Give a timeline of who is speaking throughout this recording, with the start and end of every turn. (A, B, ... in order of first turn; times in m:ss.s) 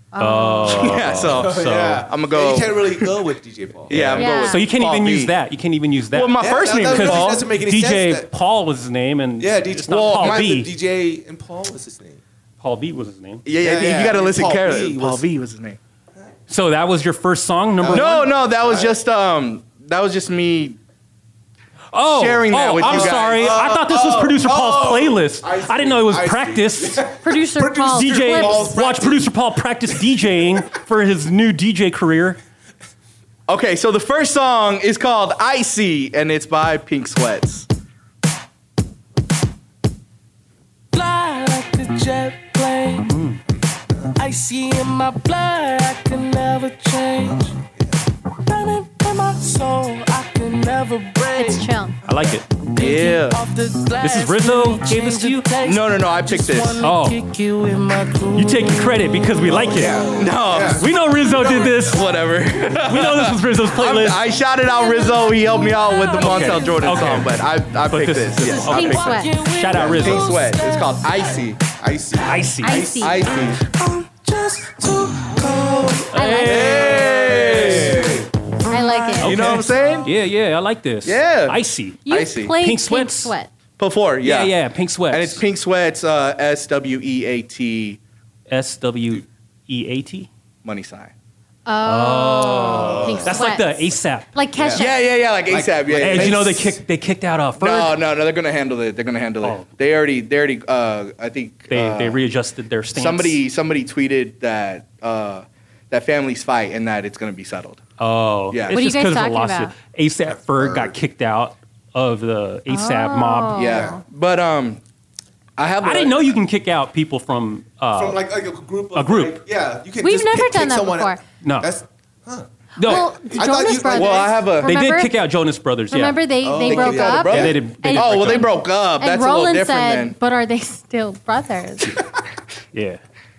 0:00.1-0:01.0 A
0:00.2-0:02.1 B
0:00.6-0:03.2 C
0:01.2-0:04.2 D
0:03.9-0:05.4 C
0:03.9-0:10.7 B
0:04.2-0:04.6 A
0:06.1-0:07.4 C
0:06.4-0:08.3 D
0:09.4-0:12.2 D
0:09.9-0:10.6 C
0:12.6-0:13.4 B
0:13.5-0:15.8 C
0:13.6-0:15.3 D
0:16.5-0:18.3 B
0:17.8-0:18.9 D
0:17.9-0:20.8 C
0:21.9-0:27.0 B
0:22.0-0:23.5 C
0:22.8-0:29.2 D
0:27.2-0:28.8 A
0:27.8-0:32.4 B
0:33.5-0:37.7 C
0:40.9-0:43.1 E
0:43.1-0:43.4 B
0:44.2-0:47.6 E
0:48.4-0:51.6 E
0:51.3-0:52.0 A
0:52.1-0:52.5 B
0:52.6-0:58.9 E
0:52.8-0:53.4 C
0:54.0-0:55.5 B
0:55.6-0:56.8 C
0:56.8-0:57.2 B
0:58.4-1:00.0 B
0:59.5-1:00.9 D
1:00.2-1:09.1 C
1:00.8-1:02.0 B
1:01.5-1:01.8 E
1:02.8-1:04.2 B
1:04.7-1:07.2 E
1:06.2-1:07.3 B
1:07.8-1:10.3 B
1:08.4-1:11.3 E
1:08.7-1:09.3 A
1:09.7-1:11.6 C
1:11.8-1:13.3 D
1:12.2-1:12.8 B
1:12.6-1:13.2 A
1:13.0-1:13.6 C
1:13.6-1:16.1 E
1:16.1-1:18.0 B
1:16.1-1:16.9 A
1:16.4-1:18.1 C
1:16.5-1:18.3 D
1:18.6-1:19.6 E
1:18.7-1:19.4 A
1:19.2-1:23.3 B
1:19.2-1:20.1 C
1:21.0-1:22.6 C
1:22.1-1:23.5 A
1:23.8-1:24.5 C
1:24.2-1:25.4 B
1:25.1-1:28.0 C
1:28.5-1:30.3 B
1:30.6-1:31.1 C
1:31.7-1:35.1 A
1:31.8-1:34.3 B
1:32.8-1:33.4 D
1:34.6-1:36.8 D
1:34.7-1:36.7 C
1:36.0-1:38.0 B
1:37.6-1:42.2 C
1:39.4-1:39.7 B
1:41.7-1:43.4 B
1:42.9-1:47.8 C
1:48.0-1:53.8 B
1:48.5-1:48.8 C
1:48.7-1:49.7 A
1:50.5-1:50.9 D
1:52.7-1:54.0 A
1:53.6-1:54.8 C
1:55.6-1:56.3 C
1:55.8-1:58.2 B
1:57.9-2:04.4 D
1:58.9-1:59.4 B
2:00.0-2:01.2 A
2:01.4-2:01.7 B
2:02.8-2:05.2 A
2:02.8-2:03.1 B
2:03.8-2:04.7 C
2:04.6-2:06.3 B
2:05.9-2:12.0 A
2:06.4-2:07.6 D
2:06.6-2:10.2 C
2:07.3-2:08.5 B
2:12.7-2:13.0 B